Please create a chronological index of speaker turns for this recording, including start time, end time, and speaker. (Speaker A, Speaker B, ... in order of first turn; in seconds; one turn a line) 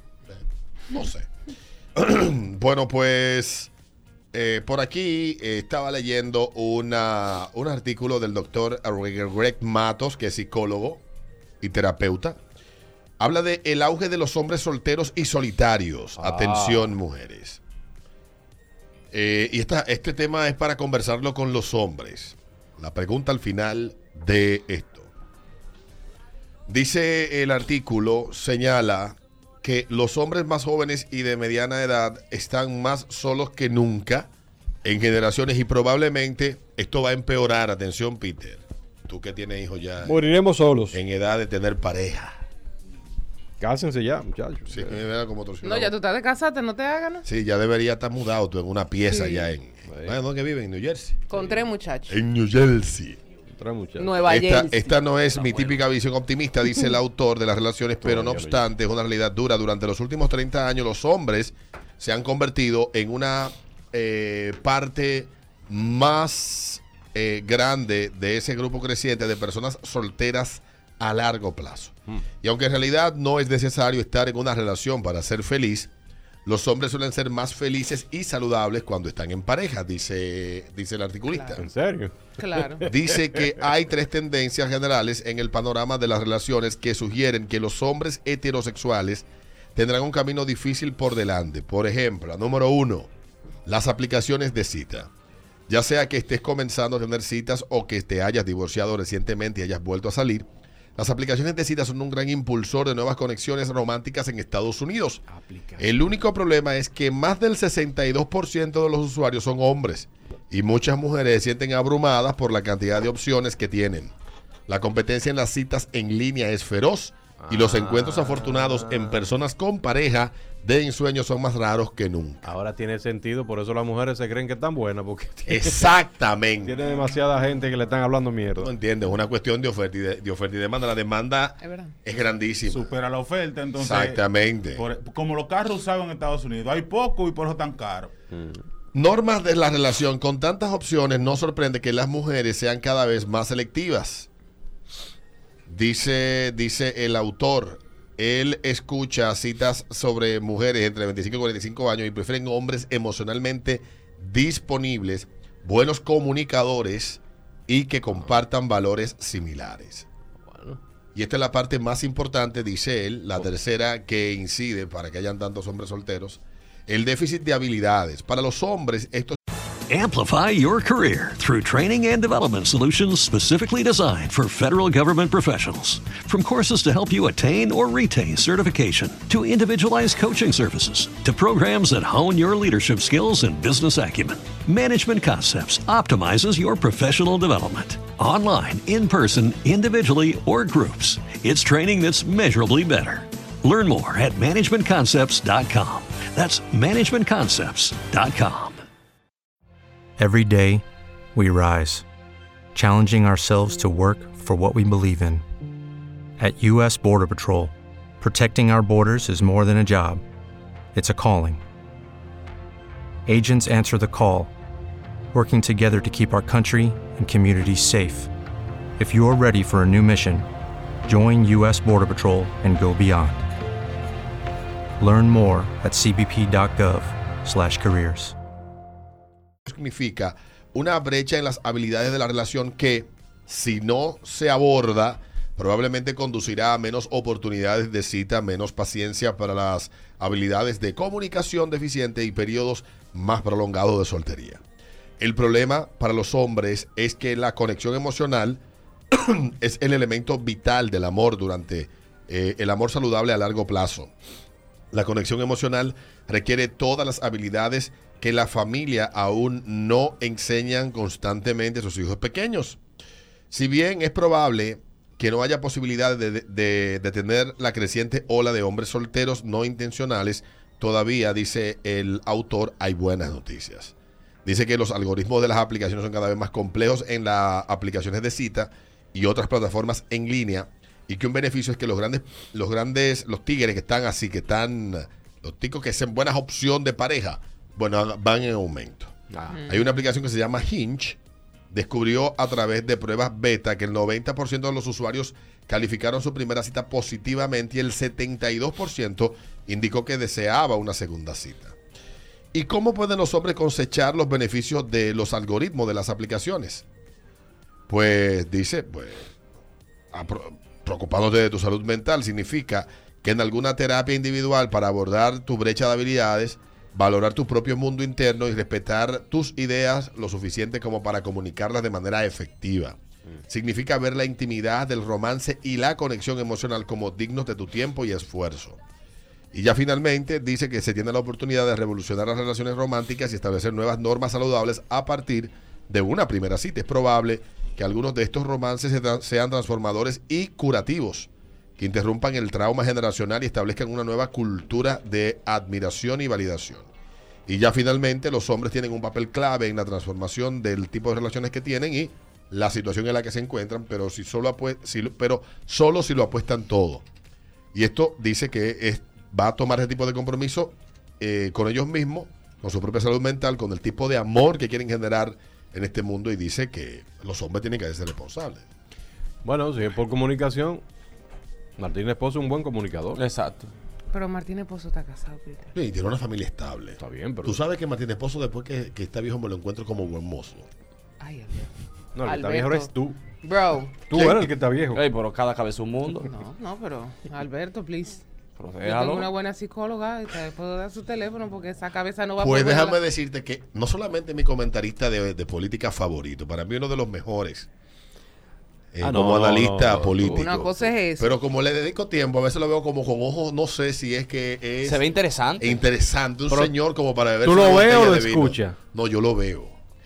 Speaker A: 0.9-1.3
Speaker A: 1.9-3.7
Speaker A: 4.3-11.0
Speaker A: 11.6-12.4
Speaker A: 13.2-17.6
Speaker B: 16.2-16.9
Speaker A: 19.1-25.1
Speaker A: 26.7-34.3
Speaker A: 34.8-40.2
Speaker B: 40.0-41.0
Speaker A: 40.9-42.4
Speaker B: 43.6-45.0
Speaker A: 44.7-45.9
Speaker C: 45.6-47.2
Speaker A: 47.2-51.2
Speaker C: 49.1-49.5
Speaker B: 49.9-50.2
Speaker C: 51.3-52.2
Speaker A: 52.1-53.2
Speaker B: 53.5-54.2
Speaker C: 54.0-55.0
Speaker A: 54.2-75.9
Speaker D: 55.3-55.8
Speaker B: 58.0-58.6
Speaker A: 76.5-81.6
Speaker C: 81.3-81.6
Speaker B: 81.6-83.5
Speaker C: 82.4-82.8
Speaker A: 82.8-93.1
Speaker A: 93.7-95.1
Speaker A: 95.7-105.2
Speaker B: 105.3-106.0
Speaker A: 105.8-114.1
Speaker A: 114.7-122.5
Speaker B: 117.4-119.3
Speaker B: 122.4-125.9
Speaker A: 125.5-126.8
Speaker B: 126.6-128.7
Speaker A: 128.6-132.9
Speaker C: 131.6-131.9
Speaker E: 132.7-134.2
Speaker A: 133.8-134.8
Speaker E: 134.8-138.1
Speaker B: 138.3-138.6
Speaker A: 138.9-144.3
Speaker A: 145.7-160.1
Speaker B: 160.5-160.8
Speaker A: 161.1-169.4
Speaker F: 169.9-198.8
Speaker G: 200.2-200.8
Speaker G: 201.3-202.0
Speaker G: 202.7-205.4
Speaker G: 206.4-210.2
Speaker G: 210.9-211.6
Speaker G: 213.2-214.5
Speaker G: 215.3-218.3
Speaker G: 219.0-220.4
Speaker G: 221.0-223.5
Speaker G: 225.0-228.3
Speaker A: 229.7-244.6
Speaker A: 245.2-248.6
Speaker A: 249.1-254.1
Speaker A: 254.9-262.8
Speaker A: 263.5-273.9
Speaker A: 274.4-291.2
Speaker C: 289.5-289.8
Speaker A: 291.7-301.8
Speaker A: 302.5-306.8
Speaker A: 307.9-309.3
Speaker A: 310.1-323.0
Speaker A: 323.5-328.8
Speaker A: 329.5-346.9
Speaker A: 347.5-357.0
Speaker A: 357.7-368.6
Speaker B: 369.4-370.8
Speaker B: 371.8-373.2
Speaker D: 373.1-373.7
Speaker C: 374.1-375.7
Speaker A: 375.7-380.7
Speaker B: 377.0-377.6
Speaker C: 381.2-381.7
Speaker B: 382.1-383.2
Speaker C: 382.2-382.9
Speaker C: 383.4-384.0
Speaker B: 384.0-385.0
Speaker A: 384.1-384.4
Speaker D: 384.9-386.3
Speaker C: 386.2-388.2
Speaker D: 388.6-389.3
Speaker C: 388.8-393.0
Speaker A: 392.4-397.7
Speaker A: 398.9-405.0
Speaker B: 399.0-400.4
Speaker C: 400.3-401.4
Speaker D: 404.8-405.8
Speaker A: 405.6-409.8
Speaker B: 406.5-406.7
Speaker B: 407.4-408.8